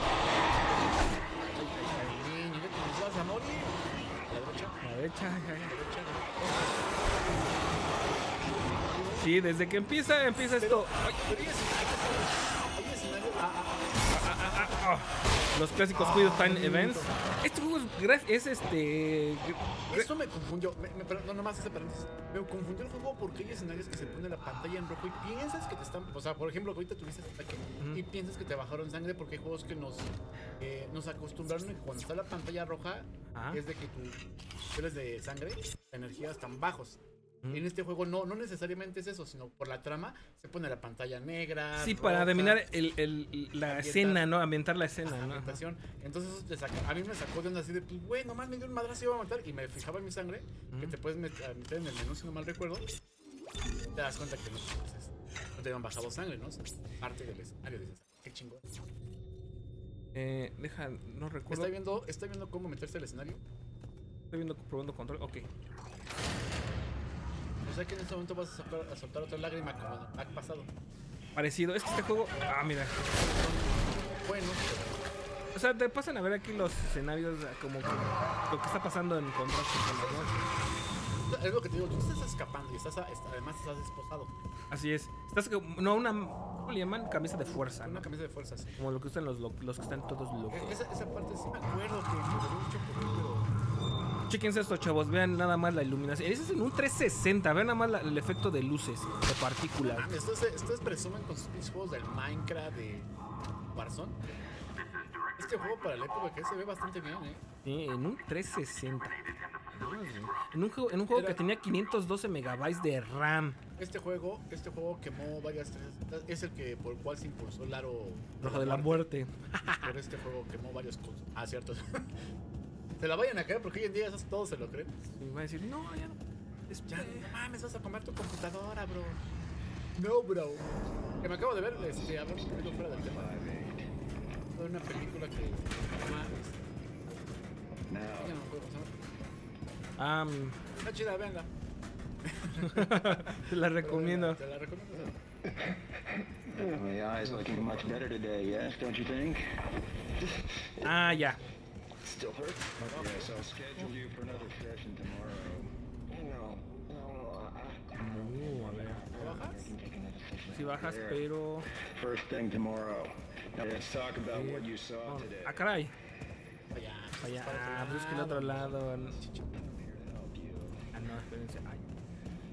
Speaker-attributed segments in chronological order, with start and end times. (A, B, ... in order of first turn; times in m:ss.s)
0:01.6-0:04.8 A
0:01.6-0:02.2 B
0:04.8-0:05.7 B
0:05.6-0:09.3 A
0:09.2-0:11.4 B
0:10.5-0:13.9 A
0:14.1-0:20.1 B
0:14.4-0:14.7 A
0:15.9-0:17.2 A
0:19.9-0:34.2 A
0:33.3-0:33.6 B
0:34.7-0:37.0 A
0:37.5-0:42.6 A
0:41.8-0:45.6 B
0:43.6-0:44.3 A
0:45.0-0:52.9 A
0:50.7-0:51.0 B
0:53.9-0:58.8 A
1:00.1-1:01.7 B
1:01.5-1:03.4 A
1:04.3-1:05.5 B
1:07.6-1:10.7 A
1:11.3-1:13.0 B
1:13.0-1:15.0 A
1:15.5-1:20.3 B
1:19.8-1:20.4 A
1:21.3-1:24.3 A
1:24.7-1:28.0 B
1:27.7-1:28.8 A
1:28.8-1:30.8 B
1:30.5-1:33.5 A
1:34.3-1:40.1 B
1:39.8-1:43.1 A
1:43.7-1:44.4 A
1:45.4-1:47.4 A
1:47.6-1:49.2 B
1:49.7-1:53.6 B
1:51.1-1:51.4 A
1:53.8-1:59.0 A
1:58.4-1:59.9 B
1:59.8-2:02.1 A
2:03.0-2:05.0 A
2:05.2-2:07.3 B
2:06.9-2:09.2 A
2:10.0-2:13.4 A
2:11.7-2:13.9 C
2:14.5-2:16.8 A
2:17.9-2:18.4 C
2:18.1-2:19.0 A
2:20.0-2:20.6 B
2:20.8-2:21.5 A
2:22.2-2:25.2 A
2:22.6-2:24.4 B
2:25.5-2:29.4 C
2:27.2-2:27.8 B
2:30.2-2:31.2 C
2:30.8-2:31.4 B
2:32.0-2:45.7 C
2:32.8-2:33.5 A
2:38.0-2:39.3 B
2:39.1-2:39.7 A
2:40.5-2:41.7 B
2:44.3-2:45.9 B
2:46.7-2:49.6 A
2:47.2-2:49.2 B
2:49.5-2:50.8 C
2:50.9-2:51.9 B